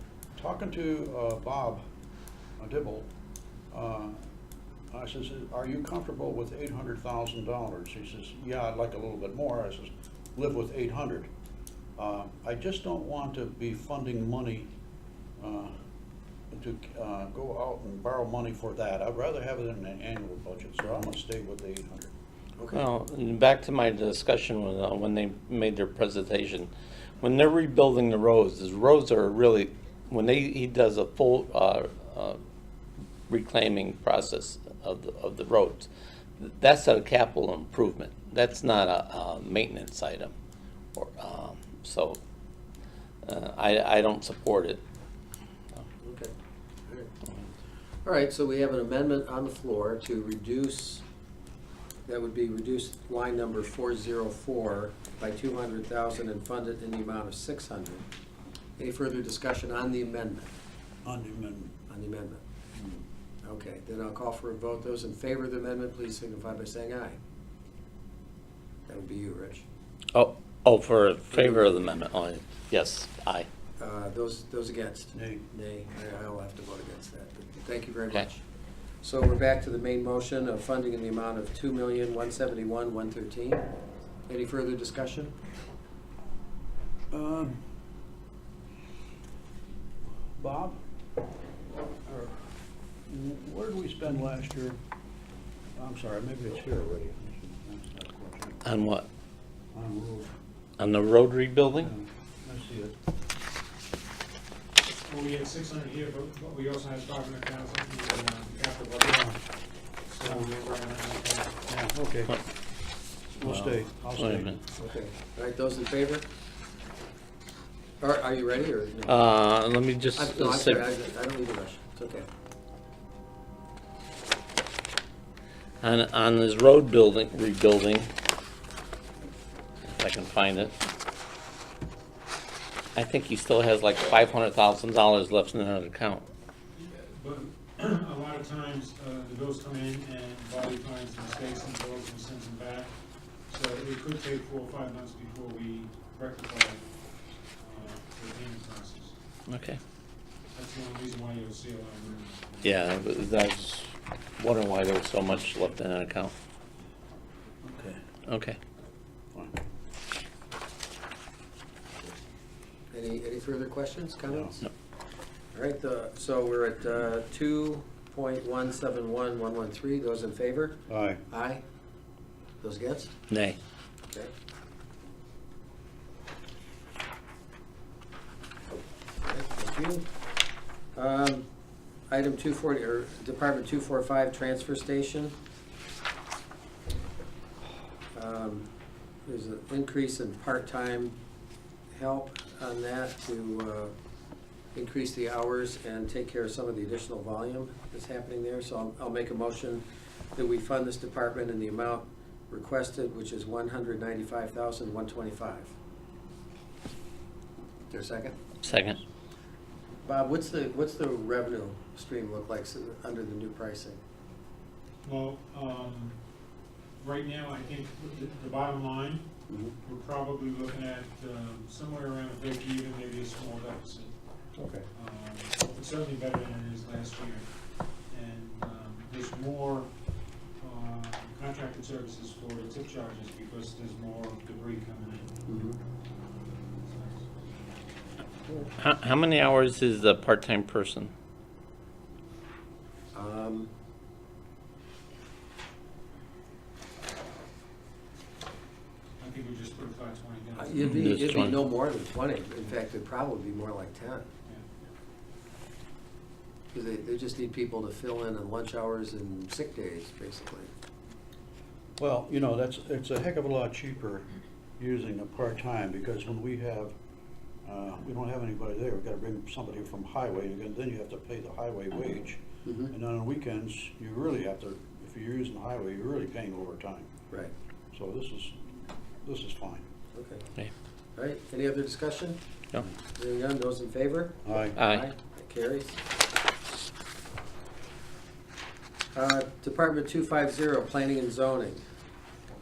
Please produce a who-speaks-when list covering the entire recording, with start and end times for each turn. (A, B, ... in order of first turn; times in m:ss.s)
0:00.4-0:01.8 A
0:02.6-0:03.1 A
0:03.7-0:04.2 A
0:04.9-0:11.3 A
0:12.0-0:14.7 A
0:15.4-0:15.8 A
0:16.5-0:22.1 A
0:22.7-0:32.4 B
0:33.3-0:40.3 B
0:41.0-0:42.2 B
0:43.2-0:44.8 B
0:46.0-0:46.3 C
0:48.0-0:51.0 C
0:52.1-0:58.0 C
0:58.8-1:00.5 C
1:01.0-1:01.8 A
1:01.9-1:02.4 C
1:03.4-1:07.2 C
1:08.9-1:09.6 C
1:10.1-1:13.5 B
1:11.3-1:11.7 C
1:13.8-1:18.4 C
1:15.1-1:15.4 A
1:19.0-1:23.7 C
1:24.3-1:25.4 C
1:27.1-1:27.6 A
1:30.4-1:30.8 A
1:32.0-1:32.6 A
1:33.1-1:34.8 A
1:35.8-1:38.6 A
1:38.6-1:39.1 B
1:39.7-1:40.3 A
1:40.8-1:41.9 B
1:41.8-1:43.0 A
1:45.1-1:49.4 D
1:50.1-1:51.5 D
1:51.7-1:52.4 A
1:53.4-1:54.6 A
1:53.4-1:54.6 B
1:54.8-1:56.3 C
1:58.0-1:59.2 C
1:59.1-2:00.8 B
2:00.2-2:02.3 C
2:05.8-2:08.1 B
2:09.9-2:10.8 B
2:13.0-2:16.2 B
2:16.8-2:22.9 D
2:23.5-2:26.8 D
2:27.6-2:29.2 D
2:29.5-2:29.8 B
2:30.6-2:32.8 D
2:32.6-2:36.3 B
2:37.6-2:38.0 A
2:38.2-2:38.6 B
2:42.9-2:44.7 C
2:44.3-2:44.6 A
2:45.5-2:51.6 C
2:50.9-2:51.2 A
2:52.6-2:53.1 C
2:53.3-2:53.6 B
2:59.2-3:00.0 C
3:01.0-3:01.5 C
3:02.1-3:05.4 C
3:08.1-3:08.7 C
3:09.2-3:11.2 C
3:11.9-3:13.9 C
3:14.7-3:19.8 C
3:20.4-3:25.7 C
3:27.9-3:28.4 C
3:28.6-3:29.0 B
3:30.0-3:34.0 C
3:35.0-3:36.2 D
3:37.0-3:39.3 D
3:39.5-3:39.8 C
3:39.8-3:44.1 D
3:44.6-3:44.9 C
3:44.9-3:47.5 D
3:48.1-3:49.9 D
3:50.6-3:55.3 D
3:55.5-3:55.8 C
3:56.8-3:57.3 D
3:58.8-4:01.1 B
4:03.1-4:03.7 C
4:09.2-4:11.0 D
4:10.6-4:14.3 C
4:10.8-4:11.6 B
4:16.7-4:20.7 C
4:22.0-4:27.0 A
4:27.6-4:37.1 A
4:32.6-4:32.9 C
4:37.9-4:39.9 A
4:40.1-4:40.5 C
4:41.2-4:42.4 C
4:43.1-4:46.0 C
4:44.4-4:44.8 A
4:44.8-4:45.0 B
4:49.1-4:51.8 C